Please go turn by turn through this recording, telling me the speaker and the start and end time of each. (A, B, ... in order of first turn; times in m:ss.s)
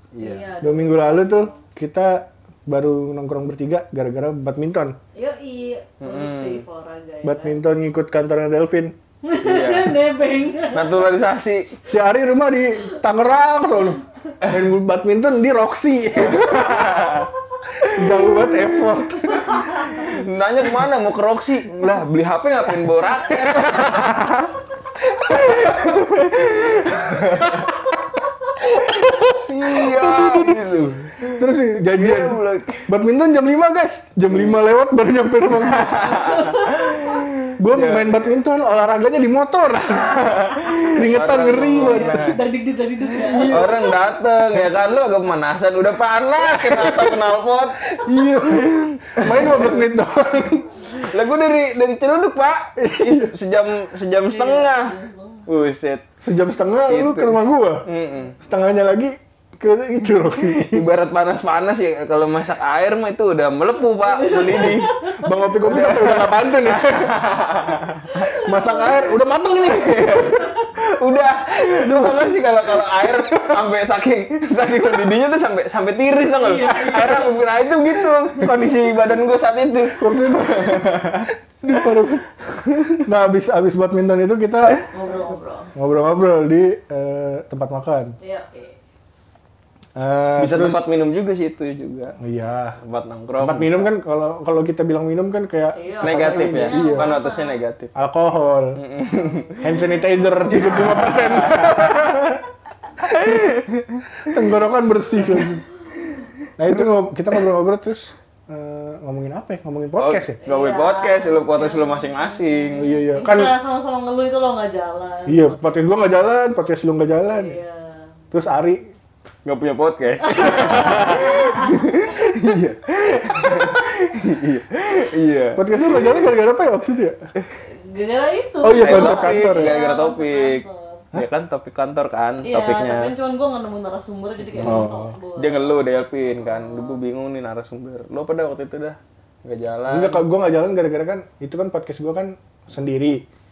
0:00.1-0:00.6 A
0:00.2-0:01.6 B
0:00.6-0:05.0 C
0:05.1-0:07.6 B
0:06.0-0:06.6 A
0:07.2-0:08.9 C
0:09.2-0:11.1 B
0:09.4-0:10.0 A
0:10.7-0:11.7 A
0:11.9-0:17.2 C
0:16.2-0:17.3 A
0:17.8-0:18.7 A
0:17.9-0:20.1 C
0:19.3-0:20.0 B
0:19.9-0:24.5 A
0:23.3-0:24.1 C
0:25.2-0:27.7 A
0:25.3-0:25.9 C
0:28.7-0:30.7 C
0:28.8-0:32.9 A
0:31.2-0:36.1 C
0:34.3-0:34.6 A
0:35.5-0:38.3 A
0:36.0-0:37.2 B
0:37.6-0:40.2 C
0:39.9-0:42.4 A
0:40.9-0:42.4 C
0:41.7-0:43.8 B
0:43.2-0:44.7 C
0:43.4-0:49.8 A
0:46.4-0:50.9 C
0:50.9-0:54.9 A
0:52.8-0:53.3 C
0:54.2-0:55.5 B
0:55.5-0:56.0 A
0:56.2-0:57.8 C
0:56.9-0:58.4 A
0:58.4-1:00.8 C
1:00.6-1:05.1 A
1:04.0-1:05.3 B
1:05.0-1:07.3 C
1:05.6-1:08.2 A
1:08.1-1:09.5 B
1:08.3-1:10.6 C
1:09.6-1:21.3 A
1:11.8-1:12.2 C
1:12.8-1:13.6 C
1:16.4-1:17.4 B
1:19.9-1:22.3 C
1:21.8-1:23.0 A
1:23.0-1:24.8 C
1:24.9-1:25.7 B
1:25.7-1:28.1 C
1:28.2-1:28.8 B
1:30.0-1:30.8 C
1:30.4-1:32.2 A
1:32.2-1:32.8 C
1:32.8-1:33.9 A
1:33.4-1:37.1 C
1:35.7-1:37.6 B
1:36.0-1:37.9 A
1:37.9-1:38.8 C
1:38.8-1:39.8 A
1:39.2-1:40.8 B
1:39.6-1:42.4 C
1:40.4-1:42.1 A
1:43.0-1:43.6 C
1:43.2-1:44.0 A
1:44.2-1:45.6 C
1:45.2-1:45.5 A
1:46.6-1:50.4 C
1:50.0-1:53.0 A
1:50.4-1:55.8 B
1:52.8-1:53.5 C
1:55.3-1:57.6 C
1:57.2-1:58.1 B
1:58.3-1:58.8 C
1:59.4-2:06.3 A
2:00.2-2:02.1 B
2:05.6-2:07.2 C
2:07.8-2:11.0 B
2:08.6-2:09.8 C
2:08.8-2:13.1 A
2:12.4-2:17.0 B
2:14.5-2:20.2 A
2:14.6-2:15.2 C
2:19.9-2:23.2 C